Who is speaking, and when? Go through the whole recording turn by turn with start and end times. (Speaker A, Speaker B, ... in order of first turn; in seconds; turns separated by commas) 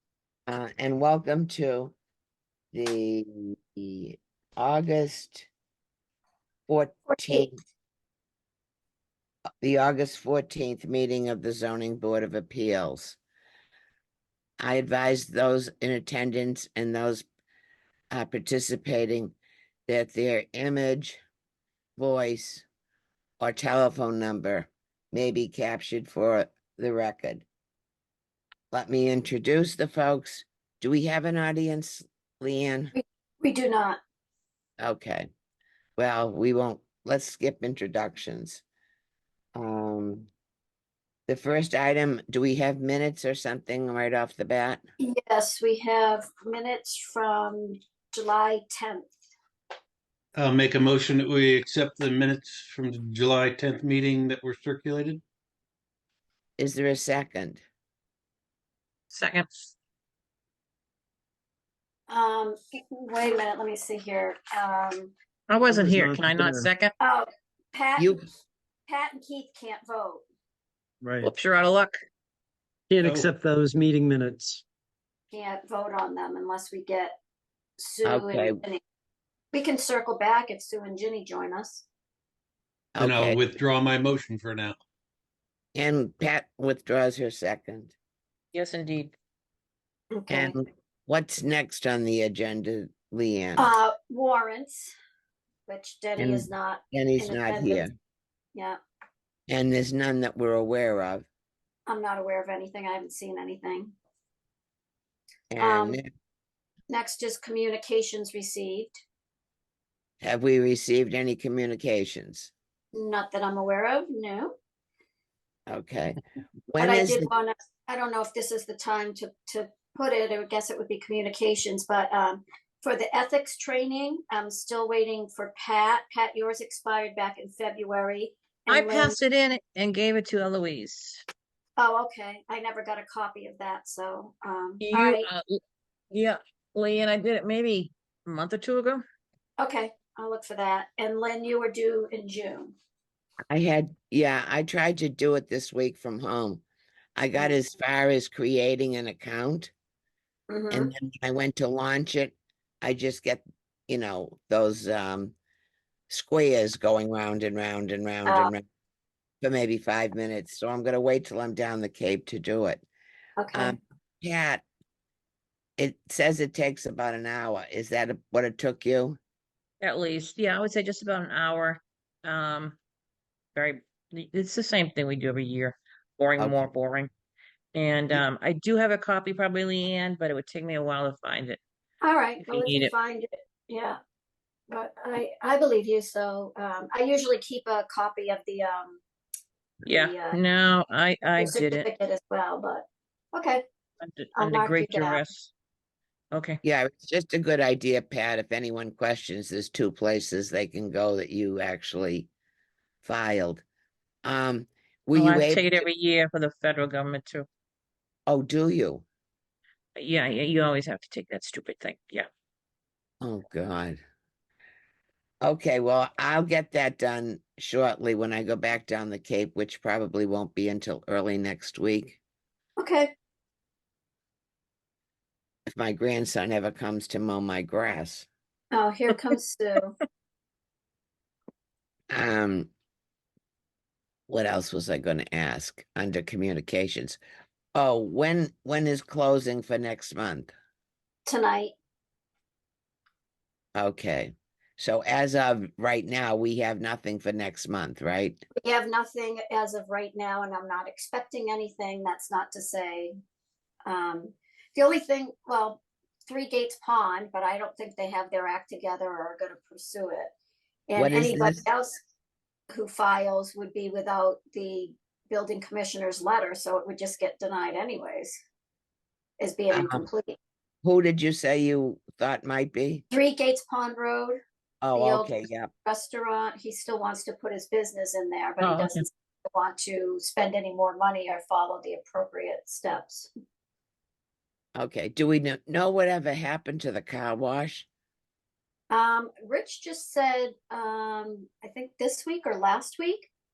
Speaker A: 0.5-1.9, Speaker A: 2.7-5.5, Speaker A: 6.7-7.6, Speaker B: 7.1-7.5, Speaker A: 9.6-13.2, Speaker A: 14.6-17.3, Speaker A: 18.1-19.4, Speaker A: 19.9-21.2, Speaker A: 22.0-22.7, Speaker A: 23.4-27.5, Speaker A: 28.7-32.9, Speaker B: 32.9-34.0, Speaker A: 34.8-35.3, Speaker A: 36.0-38.6, Speaker A: 39.6-40.3, Speaker A: 41.3-44.8, Speaker B: 45.0-49.1, Speaker C: 50.4-55.2, Speaker A: 56.6-57.6, Speaker D: 59.1-59.5, Speaker B: 62.1-65.1, Speaker D: 65.5-66.9, Speaker E: 65.7-66.7, Speaker B: 67.0-68.3, Speaker A: 68.0-68.3, Speaker B: 68.9-70.2, Speaker E: 71.0-71.3, Speaker D: 71.2-72.0, Speaker E: 72.9-74.6, Speaker C: 73.0-73.3, Speaker B: 75.3-77.2, Speaker B: 77.8-78.8, Speaker A: 78.0-78.6, Speaker B: 79.5-81.9, Speaker A: 83.0-83.4, Speaker C: 83.0-84.8, Speaker A: 85.8-88.0, Speaker D: 88.5-89.1, Speaker B: 90.1-90.5, Speaker A: 90.3-93.7, Speaker B: 93.6-94.9, Speaker B: 95.7-97.8, Speaker A: 96.2-97.9, Speaker A: 99.5-101.3, Speaker B: 101.9-104.0, Speaker A: 105.5-106.1, Speaker B: 105.6-106.0, Speaker B: 106.9-109.0, Speaker A: 110.2-112.5, Speaker B: 112.9-114.5, Speaker A: 115.7-116.2, Speaker A: 116.7-117.3, Speaker B: 116.8-129.2, Speaker D: 128.7-131.2, Speaker B: 131.8-135.3, Speaker D: 134.8-135.6, Speaker D: 136.1-139.0, Speaker B: 139.6-142.8, Speaker A: 143.5-146.6, Speaker A: 147.2-149.7, Speaker B: 150.5-150.9, Speaker A: 150.7-155.3, Speaker A: 156.1-158.6, Speaker B: 158.2-158.5, Speaker A: 159.4-162.8, Speaker B: 163.4-163.8, Speaker A: 163.5-164.7, Speaker A: 165.8-169.2, Speaker D: 169.8-172.8, Speaker D: 173.6-177.1, Speaker A: 176.4-176.7, Speaker D: 177.8-181.6, Speaker B: 182.0-184.0, Speaker D: 182.5-182.9, Speaker B: 184.7-189.0, Speaker B: 189.9-190.4, Speaker D: 189.9-191.9, Speaker B: 191.4-193.7, Speaker D: 194.0-195.5, Speaker B: 194.3-195.2, Speaker D: 196.3-196.6, Speaker A: 196.6-202.3, Speaker A: 203.0-203.6, Speaker A: 204.2-205.8, Speaker D: 205.2-207.5, Speaker A: 208.3-209.1, Speaker D: 210.0-212.3, Speaker A: 213.2-214.0, Speaker A: 215.4-222.2, Speaker B: 222.8-223.1, Speaker A: 225.7-228.3, Speaker B: 228.7-229.9, Speaker A: 232.1-232.7, Speaker A: 234.3-237.2, Speaker A: 237.8-240.5, Speaker B: 241.3-241.7, Speaker A: 243.8-248.4, Speaker B: 248.6-253.2, Speaker B: 253.8-260.3, Speaker B: 260.9-262.0, Speaker A: 261.0-261.6, Speaker B: 262.7-268.4, Speaker B: 269.4-270.4, Speaker A: 269.7-270.1, Speaker A: 270.8-273.1, Speaker B: 273.1-274.4, Speaker A: 274.8-275.7, Speaker B: 274.9-283.3, Speaker D: 278.6-279.0, Speaker A: 284.8-287.9, Speaker B: 288.9-293.3